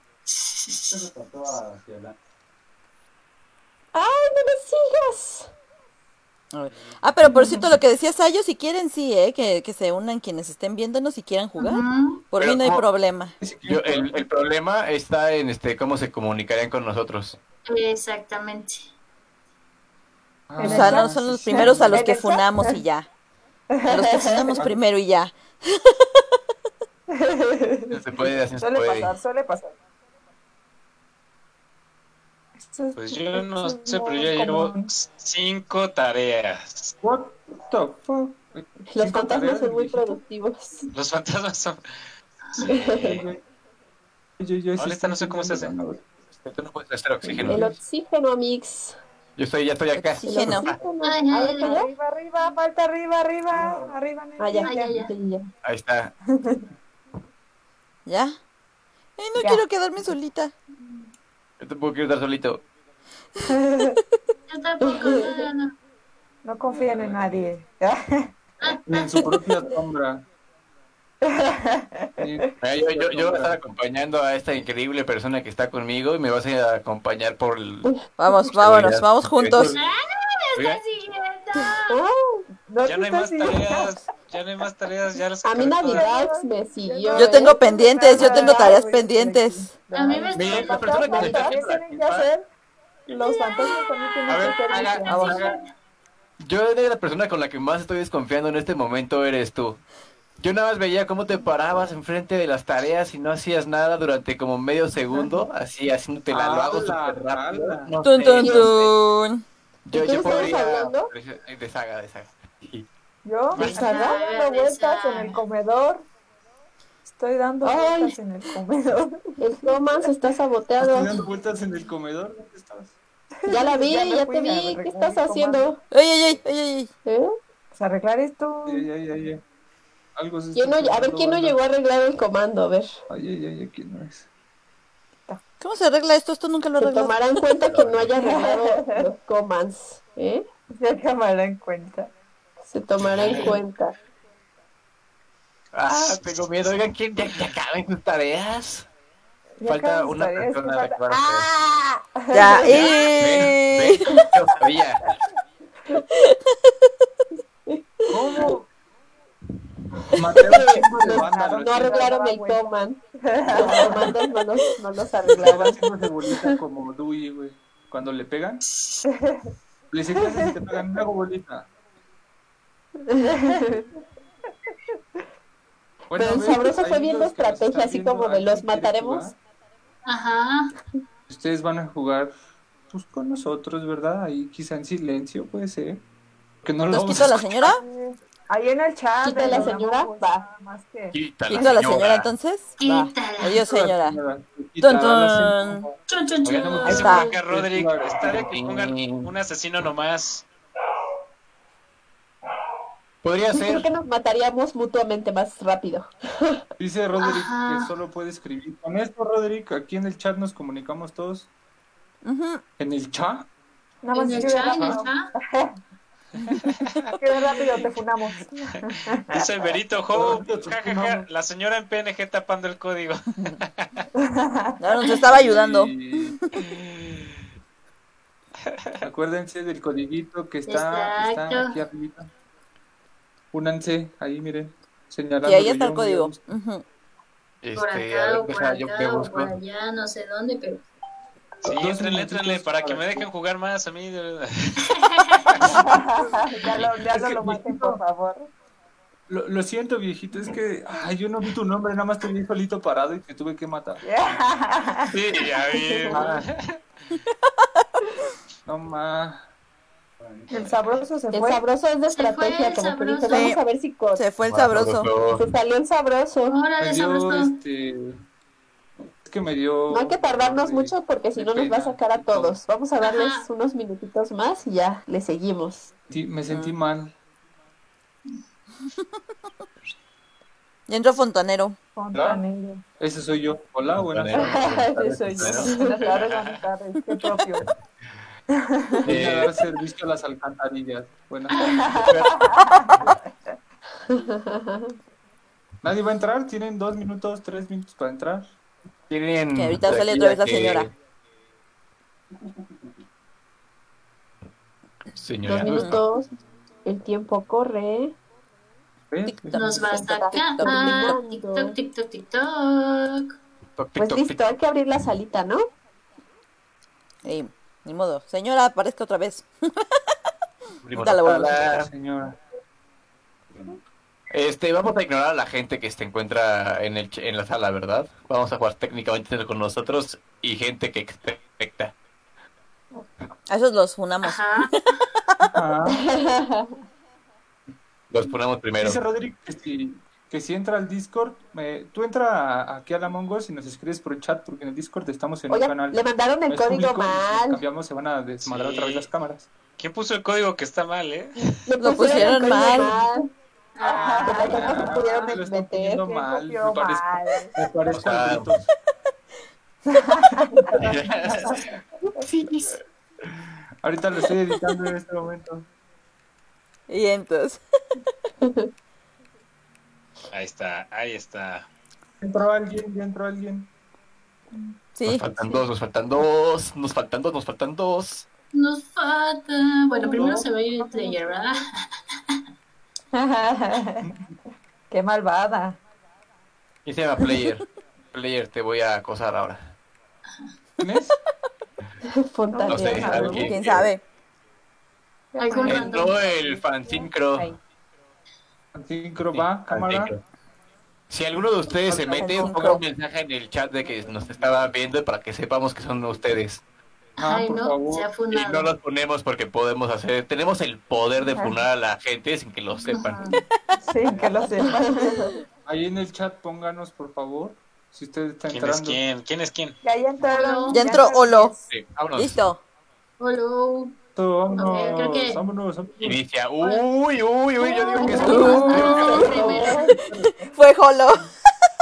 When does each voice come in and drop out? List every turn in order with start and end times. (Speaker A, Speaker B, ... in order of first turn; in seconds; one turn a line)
Speaker A: 0.3-1.1
Speaker B: 3.9-5.5
Speaker C: 6.5-13.3
Speaker A: 11.6-12.2
Speaker D: 12.4-12.8
Speaker E: 13.4-14.3
Speaker D: 13.7-17.4
Speaker A: 17.7-18.9
Speaker E: 20.5-22.1
Speaker F: 20.6-22.8
Speaker C: 20.6-23.1
Speaker F: 23.8-24.6
Speaker C: 23.9-25.9
Speaker F: 27.1-28.0
Speaker D: 27.9-29.1
Speaker F: 28.6-29.7
Speaker F: 32.6-34.9
Speaker G: 33.0-37.0
Speaker E: 37.0-40.2
Speaker B: 38.9-40.9
Speaker G: 40.9-41.8
Speaker G: 42.6-43.3
Speaker B: 42.7-43.2
Speaker E: 43.0-43.4
Speaker E: 44.4-46.0
Speaker G: 44.8-45.8
Speaker D: 46.4-47.7
Speaker E: 47.2-47.7
Speaker B: 47.4-49.0
Speaker D: 49.4-50.8
Speaker C: 50.0-50.7
Speaker B: 50.2-51.9
Speaker A: 51.0-51.7
Speaker F: 51.3-54.9
Speaker B: 54.4-55.5
Speaker A: 54.6-55.1
Speaker D: 55.6-56.1
Speaker F: 56.4-56.6
Speaker C: 58.1-58.4
Speaker C: 59.2-60.5
Speaker F: 59.4-59.6
Speaker D: 61.6-62.6
Speaker F: 63.5-64.0
Speaker A: 64.5-65.7
Speaker B: 64.8-65.4
Speaker F: 66.5-68.3
Speaker E: 66.7-67.5
Speaker A: 68.6-69.4
Speaker E: 68.9-70.2
Speaker F: 71.2-72.4
Speaker E: 72.2-73.6
Speaker D: 72.6-77.9
Speaker C: 78.2-79.7
Speaker D: 78.5-79.7
Speaker A: 79.7-82.0
Speaker G: 80.6-80.8
Speaker B: 81.9-82.5
Speaker F: 82.7-84.0
Speaker G: 82.8-86.1
Speaker B: 85.4-87.6
Speaker F: 85.8-92.5
Speaker C: 87.1-89.7
Speaker B: 88.1-88.8
Speaker A: 89.9-90.9
Speaker D: 90.3-92.3
Speaker B: 90.8-91.6
Speaker F: 93.1-95.4
Speaker D: 94.3-95.5
Speaker A: 95.0-95.6
Speaker C: 95.1-95.4
Speaker D: 96.4-99.8
Speaker D: 100.4-108.9
Speaker E: 106.3-108.0
Speaker C: 108.0-109.4
Speaker B: 108.4-108.8
Speaker D: 109.9-112.9
Speaker B: 109.9-111.1
Speaker F: 113.2-116.1
Speaker A: 113.5-115.4
Speaker B: 113.5-114.2
Speaker F: 117.1-119.4
Speaker B: 117.6-118.2
Speaker B: 119.4-121.2
Speaker E: 120.8-123.0
Speaker F: 123.4-125.7
Speaker B: 123.5-125.8
Speaker C: 125.9-126.9
Speaker B: 127.1-127.4
Speaker F: 127.7-128.9
Speaker E: 128.7-129.4
Speaker E: 130.2-131.6
Speaker B: 130.6-133.0
Speaker E: 133.1-134.3
Speaker C: 135.6-137.2
Speaker B: 136.8-140.4
Speaker D: 137.7-138.2
Speaker F: 138.2-139.0
Speaker F: 140.8-142.1
Speaker B: 142.7-143.9
Speaker D: 143.0-143.6
Speaker D: 145.7-148.9
Speaker F: 149.6-152.9
Speaker D: 149.7-151.5
Speaker C: 152.3-154.1
Speaker D: 152.7-155.0
Speaker B: 157.7-158.5
Speaker E: 158.1-158.7
Speaker E: 160.1-162.1
Speaker B: 160.3-163.0
Speaker F: 161.0-162.6
Speaker F: 163.2-164.2
Speaker B: 163.5-166.6
Speaker E: 163.6-164.1
Speaker E: 165.3-168.6
Speaker F: 169.1-169.5
Speaker E: 169.9-171.7
Speaker F: 170.2-170.5
Speaker B: 173.1-173.9
Speaker E: 176.1-179.4
Speaker B: 176.2-179.3
Speaker A: 180.1-180.7
Speaker E: 181.3-182.4
Speaker E: 182.9-186.0
Speaker E: 186.6-187.5
Speaker C: 186.9-187.8
Speaker F: 187.6-191.2
Speaker B: 189.2-190.4
Speaker D: 191.1-192.3
Speaker C: 191.5-194.2
Speaker A: 192.8-193.7
Speaker E: 193.6-198.5
Speaker C: 194.8-195.9
Speaker A: 196.1-197.4
Speaker G: 196.8-200.5
Speaker C: 196.8-197.3
Speaker D: 198.2-199.3
Speaker D: 203.2-203.9
Speaker B: 203.5-206.6
Speaker E: 206.8-211.5
Speaker A: 207.2-207.9
Speaker C: 212.2-212.6
Speaker E: 212.8-213.5
Speaker F: 214.0-215.8
Speaker A: 214.2-215.3
Speaker E: 214.3-215.0
Speaker F: 217.2-219.4
Speaker G: 219.3-224.0
Speaker E: 220.1-221.3
Speaker F: 224.2-224.8
Speaker C: 224.8-226.4
Speaker E: 225.2-226.4
Speaker G: 226.9-227.2
Speaker E: 229.0-232.3
Speaker A: 230.7-231.8
Speaker E: 233.5-236.4
Speaker C: 235.4-236.8
Speaker D: 237.6-239.5
Speaker A: 237.8-240.8
Speaker G: 241.6-244.9
Speaker E: 241.7-243.3
Speaker A: 244.9-245.5
Speaker G: 245.5-245.8
Speaker E: 245.6-245.9
Speaker F: 245.8-248.5
Speaker E: 247.1-248.0
Speaker E: 249.3-254.0
Speaker F: 254.0-255.2
Speaker G: 255.1-256.7
Speaker E: 256.1-256.4
Speaker E: 258.7-259.5
Speaker F: 260.5-261.6
Speaker B: 261.3-264.2
Speaker A: 262.1-263.5
Speaker C: 263.3-263.6
Speaker C: 264.1-265.1
Speaker D: 264.4-265.5
Speaker B: 265.3-266.6
Speaker A: 266.5-267.6
Speaker E: 266.8-268.2
Speaker E: 269.2-272.6
Speaker B: 269.9-275.9
Speaker A: 273.0-273.5
Speaker E: 276.1-277.1
Speaker C: 276.5-276.8
Speaker C: 280.9-281.8
Speaker F: 282.0-282.8
Speaker E: 282.1-282.4
Speaker E: 283.0-284.8
Speaker D: 283.9-285.8
Speaker F: 284.4-287.7
Speaker B: 284.7-286.1
Speaker G: 286.0-286.6
Speaker F: 288.6-289.1
Speaker E: 289.0-292.1
Speaker D: 289.1-289.6
Speaker F: 291.6-293.1
Speaker D: 292.0-293.1
Speaker B: 294.1-295.0
Speaker E: 295.8-298.6
Speaker D: 299.1-300.9
Speaker C: 299.6-300.9
Speaker D: 305.1-306.0
Speaker B: 305.4-306.3
Speaker C: 305.7-305.9
Speaker B: 306.9-308.1
Speaker E: 309.1-309.8
Speaker C: 309.3-311.2
Speaker A: 309.5-313.4
Speaker B: 310.0-311.8
Speaker D: 313.8-314.5
Speaker B: 314.0-315.6
Speaker C: 317.2-319.9
Speaker D: 320.8-321.9
Speaker C: 321.0-321.6
Speaker E: 321.4-322.4
Speaker D: 324.3-331.9
Speaker C: 333.5-334.8
Speaker A: 334.2-335.0
Speaker E: 335.5-336.0
Speaker B: 335.9-336.7
Speaker D: 338.1-339.0
Speaker E: 338.8-349.5
Speaker B: 345.5-347.6
Speaker G: 348.4-349.1
Speaker G: 349.8-351.6
Speaker B: 351.7-353.3
Speaker C: 351.8-353.0
Speaker A: 353.8-354.9
Speaker F: 353.8-355.4
Speaker B: 354.0-356.1
Speaker E: 354.1-358.7
Speaker F: 356.0-357.5
Speaker D: 357.9-358.6
Speaker F: 359.9-360.7
Speaker E: 360.6-361.6
Speaker D: 360.7-361.6
Speaker D: 362.2-362.8
Speaker E: 363.8-365.7
Speaker C: 366.9-367.6
Speaker B: 368.4-368.7
Speaker G: 370.3-371.7
Speaker E: 372.2-373.7
Speaker C: 375.0-375.4
Speaker D: 375.0-378.3
Speaker A: 378.5-382.4
Speaker E: 380.0-380.5
Speaker F: 380.0-381.2
Speaker F: 383.1-384.1
Speaker F: 384.9-385.8
Speaker D: 386.9-389.7
Speaker E: 390.8-391.2
Speaker B: 392.1-393.4
Speaker F: 392.5-393.4
Speaker D: 392.7-393.9
Speaker E: 392.9-393.5
Speaker C: 393.3-394.0
Speaker F: 395.4-397.6
Speaker A: 395.4-396.1
Speaker D: 395.6-397.5
Speaker E: 398.7-400.1
Speaker D: 399.6-400.2
Speaker D: 401.1-406.6
Speaker E: 401.9-402.8
Speaker C: 402.1-402.8
Speaker A: 407.2-408.7
Speaker E: 407.2-408.1
Speaker D: 408.3-413.2
Speaker A: 412.9-413.4
Speaker F: 413.8-415.3
Speaker B: 414.7-415.3
Speaker E: 415.7-419.0
Speaker G: 418.5-419.8
Speaker F: 419.8-421.7
Speaker A: 420.2-421.1
Speaker C: 420.7-421.6
Speaker D: 421.7-422.4
Speaker C: 422.1-422.6
Speaker A: 423.2-424.0
Speaker E: 424.2-426.2
Speaker A: 424.5-425.4
Speaker D: 426.0-429.3
Speaker A: 427.6-429.9
Speaker B: 428.0-429.8
Speaker F: 428.1-429.9
Speaker C: 428.1-429.1
Speaker E: 429.5-430.3
Speaker C: 430.1-431.3